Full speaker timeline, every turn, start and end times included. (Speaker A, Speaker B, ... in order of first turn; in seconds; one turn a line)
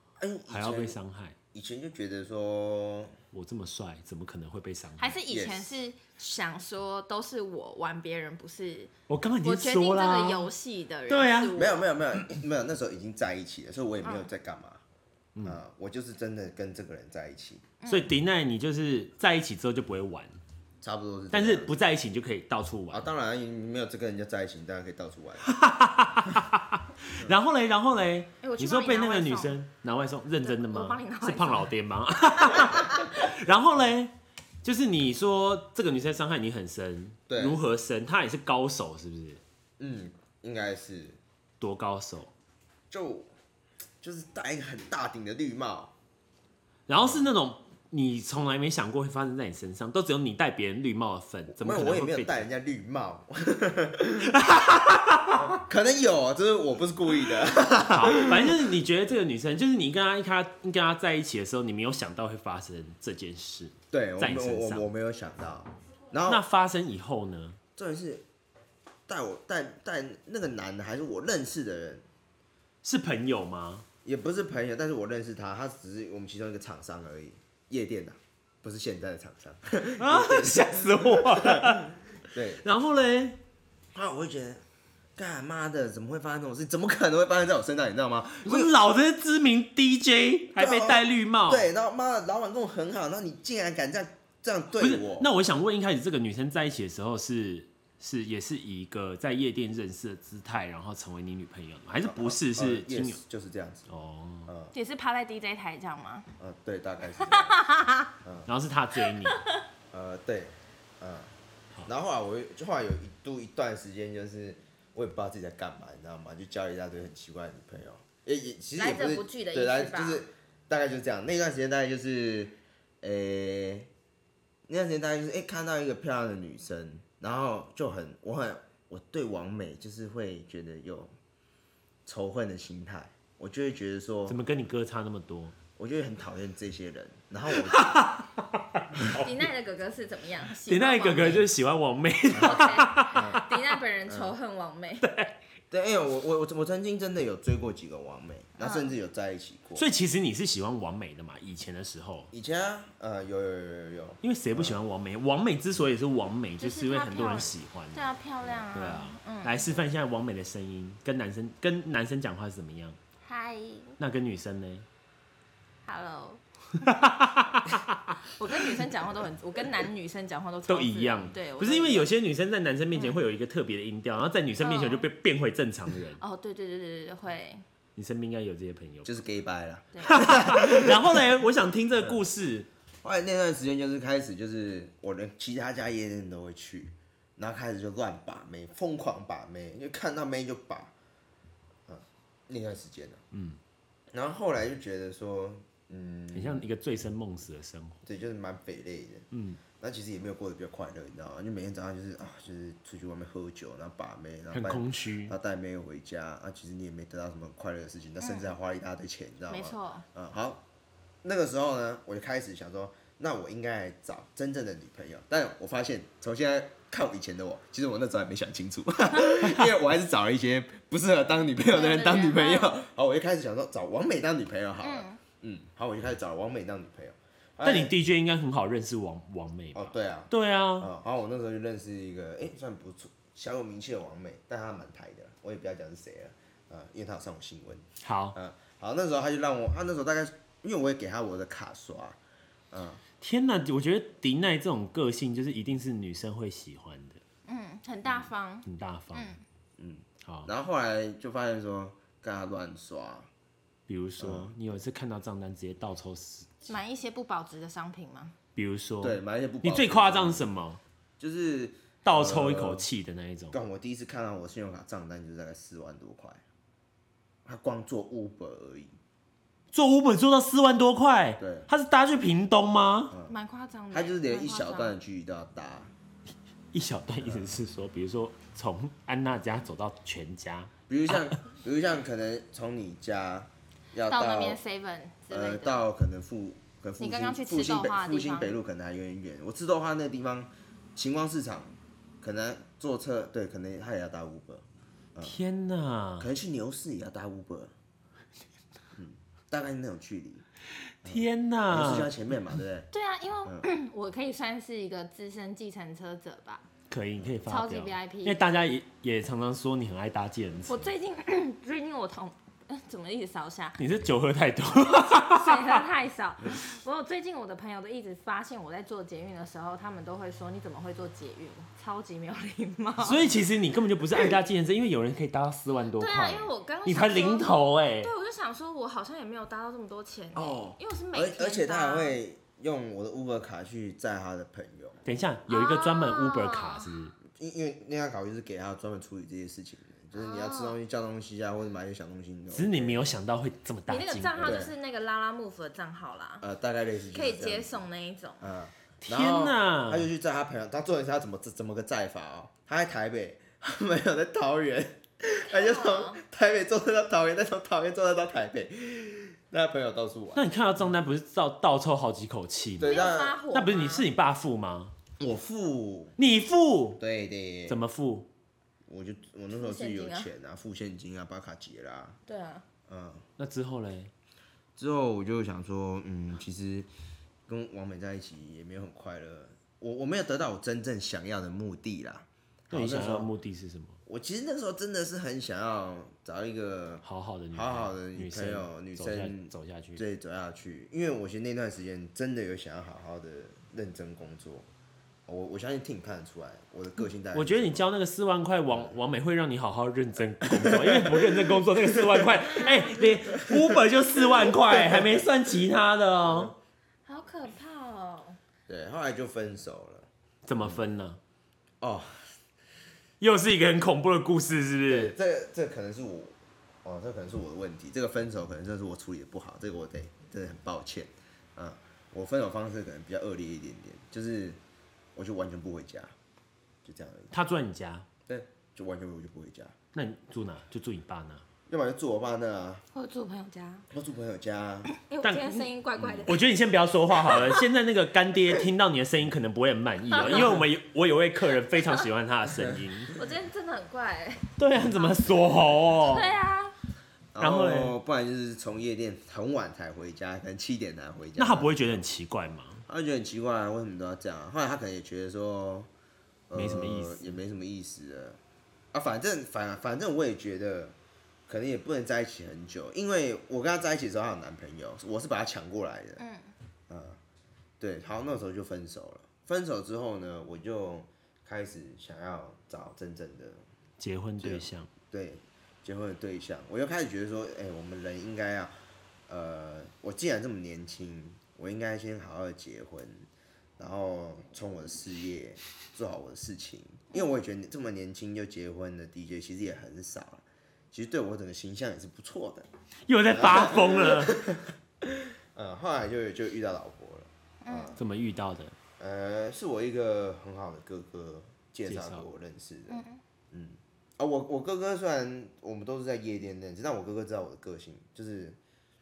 Speaker A: 0.2-1.0
Speaker B: 0.5-1.4
Speaker A: 1.5-3.2
Speaker B: 3.3-5.2
Speaker C: 5.0-8.9
Speaker A: 5.3-5.8
Speaker B: 9.1-10.5
Speaker C: 9.4-11.9
Speaker B: 11.1-11.6
Speaker A: 11.6-14.8
Speaker C: 14.0-14.3
Speaker A: 15.4-17.7
Speaker C: 17.8-18.1
Speaker B: 17.9-20.4
Speaker A: 20.8-21.8
Speaker B: 21.3-23.1
Speaker A: 22.9-25.5
Speaker B: 25.5-34.1
Speaker C: 28.4-29.6
Speaker C: 30.4-31.7
Speaker C: 32.5-33.1
Speaker B: 34.6-39.4
Speaker A: 37.3-37.6
Speaker A: 39.8-41.2
Speaker B: 41.6-42.3
Speaker A: 42.9-43.3
Speaker A: 44.0-45.9
Speaker B: 46.9-52.5
Speaker A: 47.0-47.3
Speaker A: 51.5-54.4
Speaker B: 54.2-55.5
Speaker A: 55.4-58.6
Speaker B: 57.9-64.8
Speaker A: 63.9-66.4
Speaker B: 66.3-67.6
Speaker A: 67.8-68.2
Speaker A: 69.1-72.1
Speaker B: 72.8-73.8
Speaker A: 74.0-82.6
Speaker B: 80.0-81.9
Speaker B: 82.6-83.4
Speaker A: 83.9-84.6
Speaker A: 85.2-88.7
Speaker B: 88.5-91.7
Speaker A: 90.6-95.3
Speaker B: 94.8-103.2
Speaker A: 102.0-103.9
Speaker B: 103.9-104.5
Speaker A: 104.5-104.7
Speaker C: 104.7-106.3
Speaker A: 106.4-107.6
Speaker C: 107.2-108.1
Speaker A: 108.2-108.5
Speaker B: 108.5-109.4
Speaker C: 109.2-109.6
Speaker A: 109.9-111.3
Speaker A: 111.9-123.9
Speaker C: 118.8-120.2
Speaker A: 124.7-131.1
Speaker A: 132.1-134.4
Speaker B: 134.3-135.6
Speaker A: 135.8-138.0
Speaker B: 137.5-139.5
Speaker C: 139.2-141.5
Speaker B: 140.7-143.6
Speaker A: 142.3-143.4
Speaker C: 142.3-145.1
Speaker A: 144.1-144.3
Speaker B: 145.0-145.3
Speaker A: 145.7-149.9
Speaker C: 148.6-148.9
Speaker B: 149.8-152.3
Speaker A: 152.3-154.8
Speaker B: 154.2-158.1
Speaker C: 156.6-159.7
Speaker B: 158.7-163.0
Speaker C: 163.2-164.0
Speaker B: 164.0-164.9
Speaker C: 165.9-166.9
Speaker B: 166.8-168.2
Speaker C: 168.2-172.1
Speaker B: 170.7-176.2
Speaker C: 172.9-173.2
Speaker C: 174.6-175.1
Speaker C: 176.2-177.6
Speaker B: 178.0-179.2
Speaker A: 179.1-181.3
Speaker C: 179.9-180.2
Speaker B: 180.1-182.7
Speaker A: 183.0-190.9
Speaker A: 191.9-193.2
Speaker B: 193.3-193.6
Speaker A: 194.1-196.7
Speaker B: 196.3-198.0
Speaker A: 198.1-210.6
Speaker B: 199.3-199.6
Speaker B: 204.5-205.3
Speaker C: 208.2-208.5
Speaker C: 209.5-210.1
Speaker A: 211.2-227.9
Speaker C: 221.7-222.8
Speaker C: 224.8-225.2
Speaker B: 227.6-230.9
Speaker A: 229.8-242.2
Speaker B: 238.0-238.4
Speaker A: 242.7-243.0
Speaker B: 243.2-247.2
Speaker C: 247.5-249.4
Speaker B: 248.7-249.3
Speaker A: 249.8-253.3
Speaker B: 250.2-250.5
Speaker B: 253.9-256.6
Speaker A: 254.2-254.5
Speaker C: 256.7-258.4
Speaker B: 258.6-260.8
Speaker A: 259.0-260.5
Speaker A: 261.2-262.9
Speaker B: 262.1-263.6
Speaker A: 263.5-266.4
Speaker A: 267.4-268.9
Speaker B: 269.7-273.1
Speaker A: 271.4-271.7
Speaker C: 273.3-275.0
Speaker A: 273.9-275.9
Speaker B: 276.7-281.3
Speaker A: 277.2-277.5
Speaker A: 280.9-284.6
Speaker C: 284.1-285.9
Speaker A: 285.3-295.4
Speaker C: 287.0-288.6
Speaker B: 295.2-296.3
Speaker A: 296.2-297.7
Speaker A: 299.0-300.5
Speaker B: 301.0-302.1
Speaker A: 301.0-302.9
Speaker C: 302.9-306.7
Speaker B: 306.9-310.9
Speaker C: 307.5-308.4
Speaker C: 310.7-313.8
Speaker B: 313.8-315.9
Speaker C: 314.8-323.3
Speaker B: 323.0-328.1
Speaker C: 326.0-332.2
Speaker A: 330.4-335.0
Speaker B: 335.1-337.2
Speaker C: 335.5-336.9
Speaker A: 337.3-343.0
Speaker C: 340.1-340.8
Speaker B: 342.5-344.6
Speaker C: 343.9-346.5
Speaker A: 344.4-344.7
Speaker A: 346.4-347.9
Speaker C: 347.1-348.5
Speaker A: 348.4-360.5
Speaker B: 349.0-350.1
Speaker C: 355.5-356.2
Speaker B: 360.4-364.9
Speaker A: 362.8-363.4
Speaker C: 362.8-364.1
Speaker A: 365.2-366.2
Speaker B: 366.2-367.0
Speaker A: 367.0-367.8
Speaker B: 367.7-368.3
Speaker A: 368.9-372.2
Speaker C: 369.5-370.3
Speaker C: 372.3-372.6
Speaker A: 372.9-373.3
Speaker B: 373.4-374.1
Speaker A: 374.8-376.9
Speaker A: 377.5-383.3
Speaker B: 382.7-384.0
Speaker A: 384.1-394.7
Speaker B: 387.0-390.0
Speaker A: 395.3-397.9
Speaker B: 397.3-406.5
Speaker A: 400.4-405.3
Speaker C: 402.5-403.0
Speaker A: 406.2-406.6
Speaker C: 407.1-408.4
Speaker A: 408.7-410.1
Speaker B: 410.4-411.2
Speaker A: 411.8-412.2
Speaker B: 413.2-415.1
Speaker A: 414.9-424.6
Speaker A: 425.1-426.1
Speaker A: 426.8-427.3
Speaker B: 427.3-428.1
Speaker A: 428.3-429.8
Speaker B: 429.9-431.4
Speaker A: 431.7-432.8
Speaker C: 432.9-433.9
Speaker A: 433.9-434.9
Speaker C: 434.9-436.4
Speaker B: 435.2-435.7
Speaker A: 436.0-436.3
Speaker B: 436.3-443.1
Speaker C: 437.3-437.6
Speaker C: 440.1-440.6
Speaker C: 443.1-445.3
Speaker B: 444.6-446.3
Speaker C: 446.0-446.8
Speaker A: 447.3-452.0
Speaker B: 447.4-448.0
Speaker B: 451.4-452.8
Speaker A: 452.9-455.9
Speaker A: 456.5-458.4
Speaker B: 456.5-457.3
Speaker A: 458.9-461.0
Speaker A: 461.5-466.2
Speaker C: 466.2-466.5
Speaker A: 466.9-467.2
Speaker A: 467.8-473.6
Speaker B: 474.0-474.9
Speaker A: 474.4-478.7
Speaker A: 479.3-492.7
Speaker B: 493.1-494.4
Speaker A: 493.3-498.0
Speaker C: 497.6-498.0
Speaker B: 498.0-498.8
Speaker A: 499.0-508.6
Speaker B: 501.9-502.2
Speaker C: 502.9-503.2